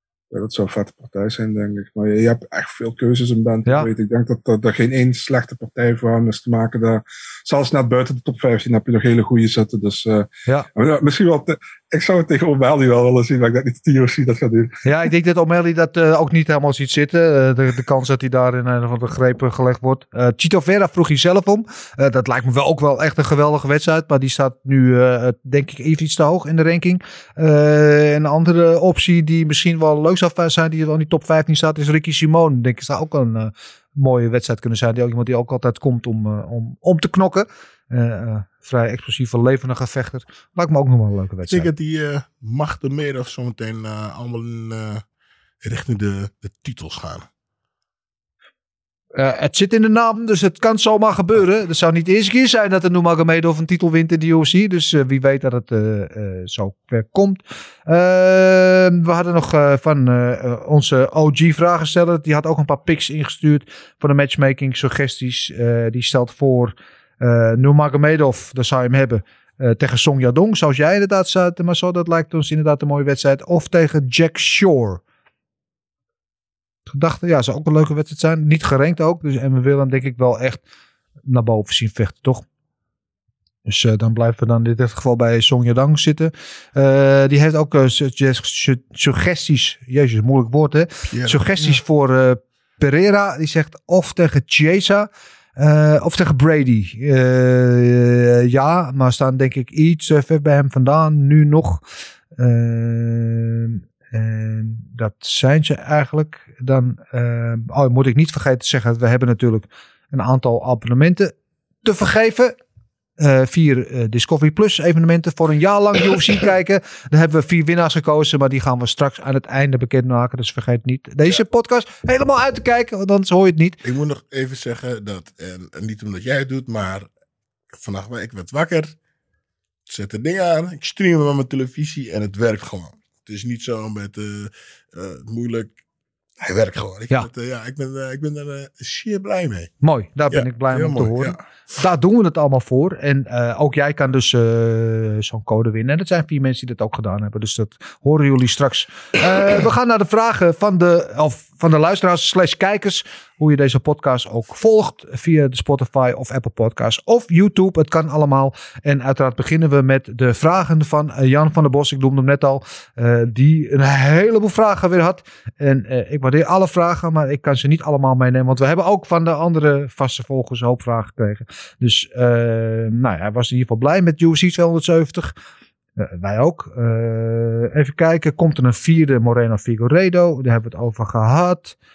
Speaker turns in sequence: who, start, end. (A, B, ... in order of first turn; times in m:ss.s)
0:00.3-0:14.8 A
0:14.8-0:41.7 B
0:41.5-0:45.0 C
0:45.6-0:47.2 C
0:49.1-1:15.0 B
1:16.9-1:20.6 B
1:21.3-1:22.4 B
1:23.6-1:41.8 B
1:31.1-1:31.8 C
1:42.4-1:52.6 B
1:53.2-2:03.8 B
2:03.8-2:07.1 C
2:07.7-2:08.9 C
2:09.9-2:15.7 C
2:16.4-2:19.7 C
2:19.8-2:55.3 B
2:20.3-2:21.4 C
2:56.0-3:01.7 B